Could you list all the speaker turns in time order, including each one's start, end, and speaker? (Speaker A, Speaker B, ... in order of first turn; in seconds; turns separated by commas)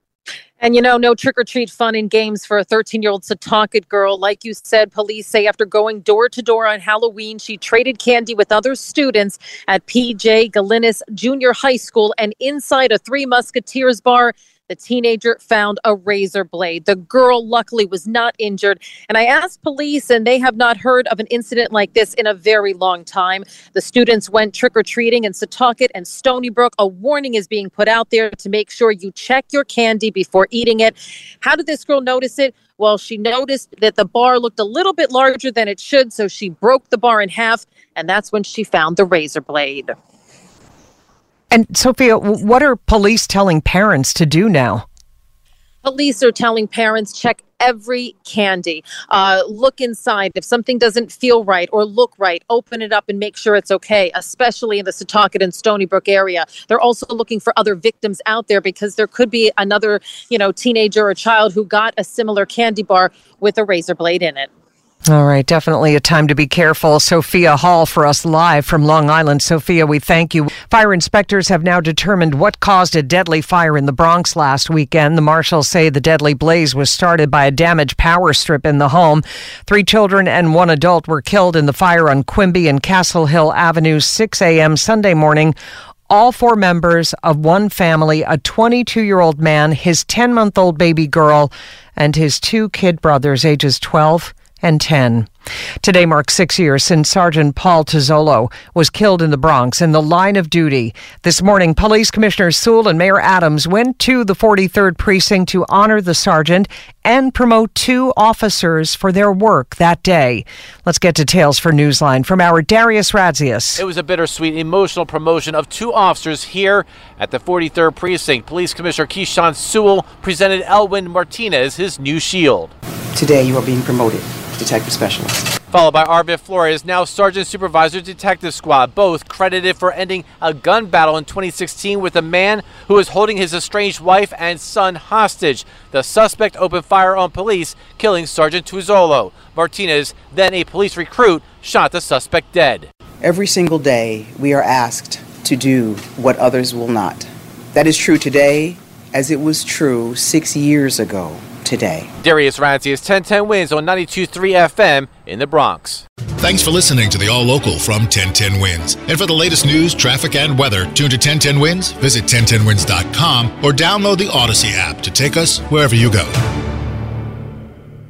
Speaker A: 0.6-40.0, Speaker B: 41.5-44.9, Speaker A: 45.8-64.5, Speaker B: 65.1-85.5, Speaker B: 86.1-95.3, Speaker B: 95.8-113.8, Speaker C: 113.8-122.7, Speaker D: 123.2-125.4, Speaker C: 125.7-142.9, Speaker D: 143.2-152.1, Speaker C: 152.2-156.0, Speaker E: 156.4-165.6